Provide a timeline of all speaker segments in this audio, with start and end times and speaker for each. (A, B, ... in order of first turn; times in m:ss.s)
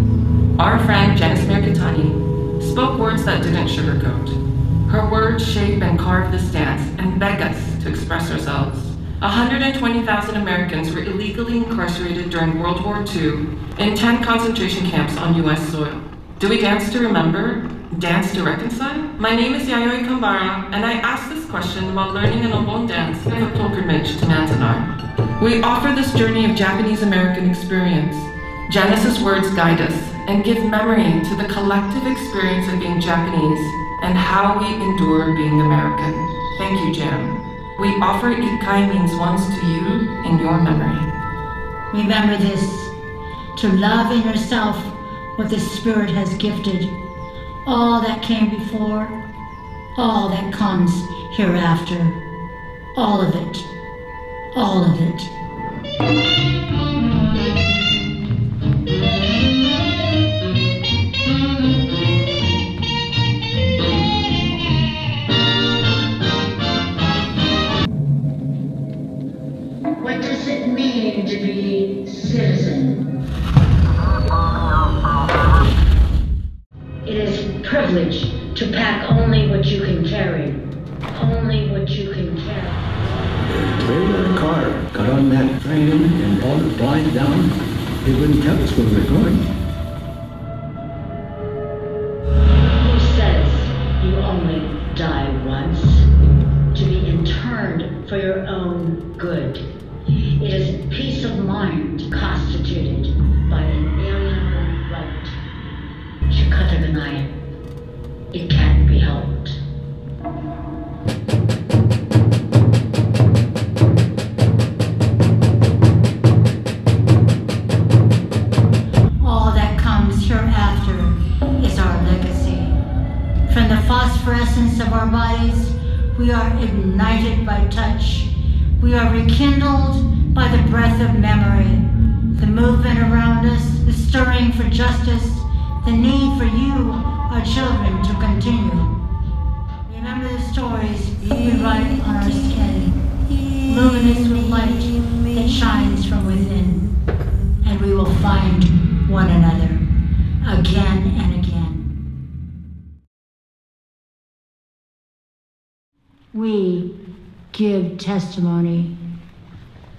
0:00.6-0:41.1 A
0:41.9-0:42.9 B
0:43.5-0:46.9 B
0:47.6-0:49.1 B
0:50.0-0:52.2 B
0:52.9-0:53.6 B
0:54.5-0:55.3 B
1:10.0-1:13.0 B
1:17.1-1:20.5 C
1:17.6-1:17.9 B
1:18.5-1:18.9 B
1:19.7-1:20.3 B
1:21.2-1:22.7 C
1:21.2-1:22.6 B
1:23.4-1:27.5 D
1:28.0-1:29.4 D
1:32.8-1:36.0 C
1:36.7-1:39.6 C
1:40.4-1:45.2 C
1:46.3-1:47.3 C
1:48.3-1:49.5 C
1:59.2-2:02.8 B
2:03.5-2:18.9 B
2:19.8-2:22.9 B
2:23.6-2:26.8 B
2:27.6-2:29.8 B
2:30.4-2:31.8 B
2:36.3-2:36.9 B
2:37.5-2:38.9 B